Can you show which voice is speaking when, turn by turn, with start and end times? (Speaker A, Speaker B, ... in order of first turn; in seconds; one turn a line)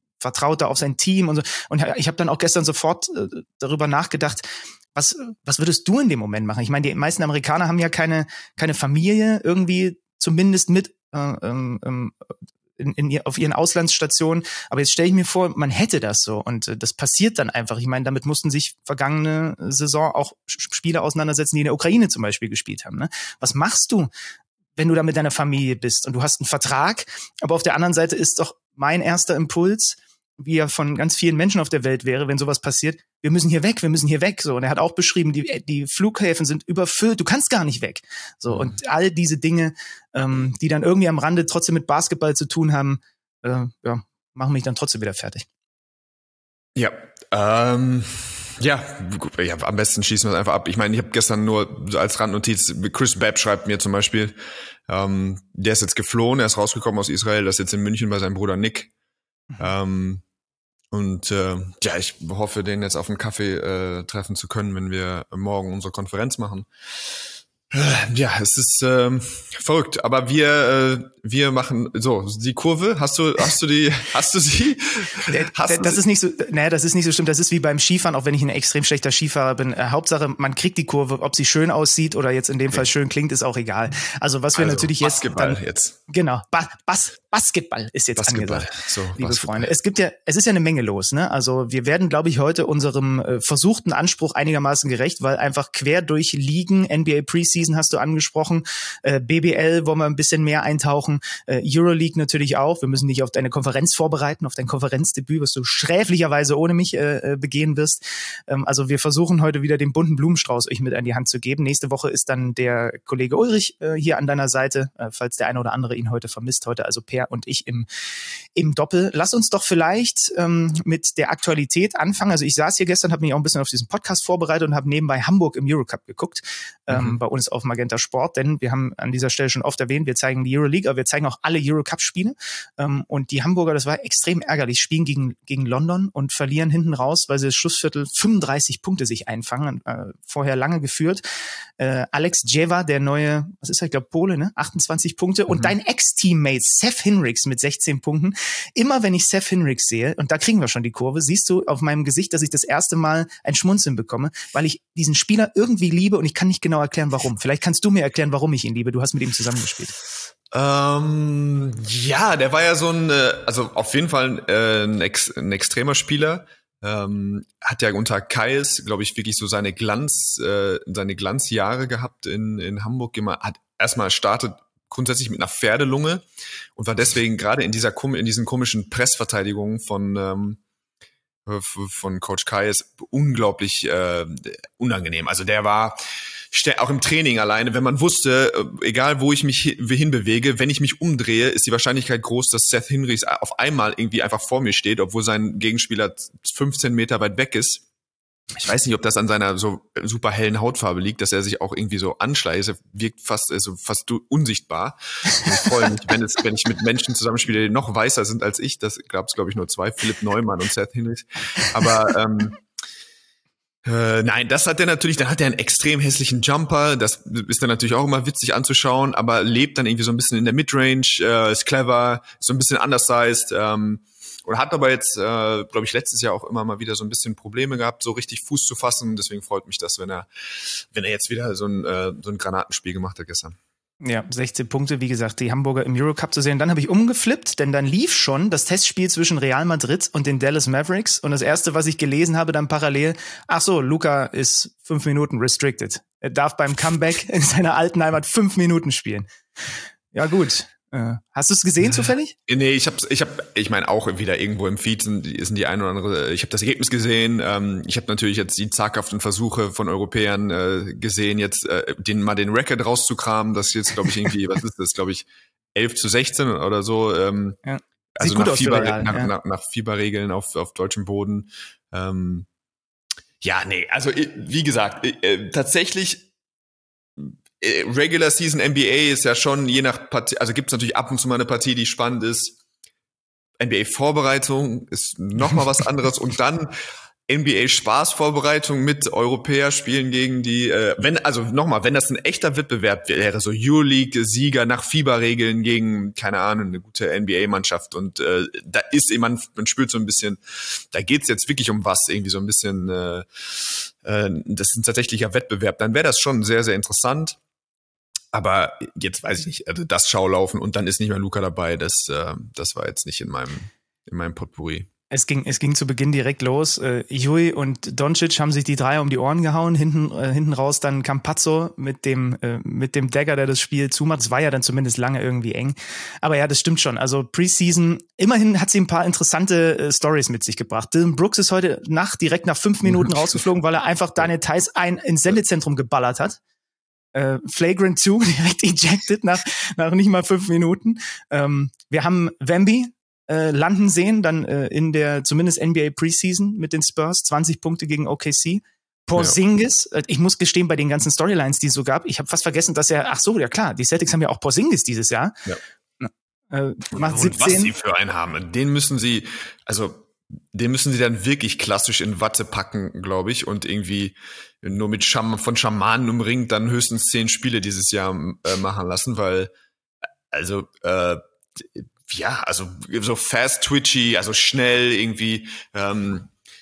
Speaker A: 0.2-12.1
Speaker A: 12.8-24.1
Speaker A: 24.8-45.5
Speaker B: 46.7-54.4
Speaker B: 54.9-58.9
Speaker B: 59.6-60.2
Speaker B: 60.9-76.0
Speaker A: 75.3-117.9
Speaker B: 84.5-86.0
Speaker B: 88.2-89.7
Speaker A: 118.5-141.2
Speaker B: 126.9-127.2
Speaker A: 141.8-159.9
Speaker B: 160.5-180.6
Speaker B: 181.4-186.0
Speaker B: 186.5-197.8
Speaker B: 198.6-212.6
Speaker B: 213.8-233.6
Speaker A: 234.0-249.3
Speaker A: 250.1-252.3
Speaker B: 251.9-267.6
Speaker A: 267.6-269.3
Speaker B: 268.2-272.5
Speaker B: 273.4-276.3
Speaker B: 277.2-282.6
Speaker B: 283.6-286.7
Speaker B: 287.3-307.4
Speaker B: 308.3-314.9
Speaker A: 315.1-336.4
Speaker A: 337.1-355.4
Speaker A: 356.0-357.7
Speaker B: 356.9-369.5
Speaker B: 370.3-376.3